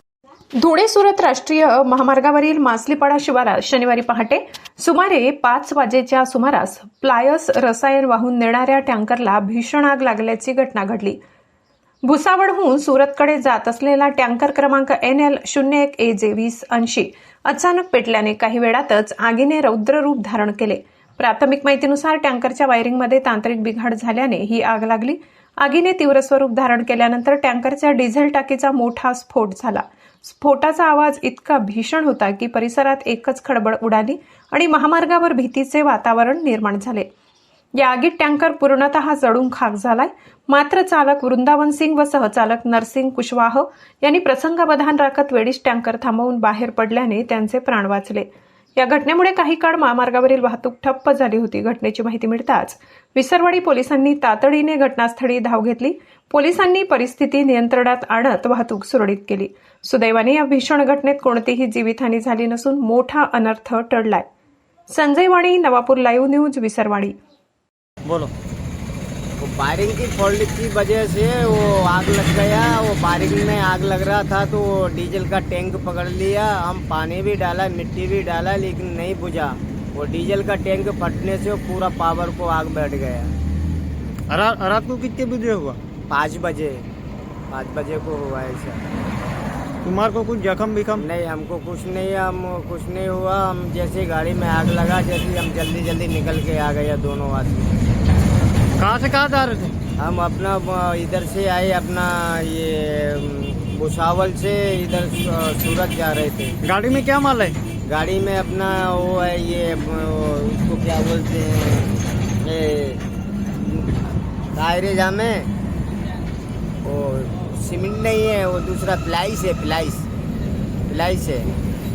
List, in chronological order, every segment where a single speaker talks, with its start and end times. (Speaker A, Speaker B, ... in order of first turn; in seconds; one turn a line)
Speaker A: 0.6-11.2
Speaker A: 12.0-37.1
Speaker A: 37.7-64.3
Speaker A: 64.9-67.2
Speaker B: 68.0-68.3
Speaker C: 69.4-83.3
Speaker B: 84.3-85.8
Speaker C: 86.1-86.8
Speaker C: 87.5-88.8
Speaker B: 89.8-91.0
Speaker C: 91.0-97.7
Speaker B: 98.8-99.7
Speaker C: 100.0-106.5
Speaker B: 106.6-107.5
Speaker C: 107.8-111.9
Speaker C: 112.4-113.0
Speaker C: 113.6-113.9
Speaker C: 114.5-115.5
Speaker C: 116.8-120.1
Speaker C: 120.9-121.5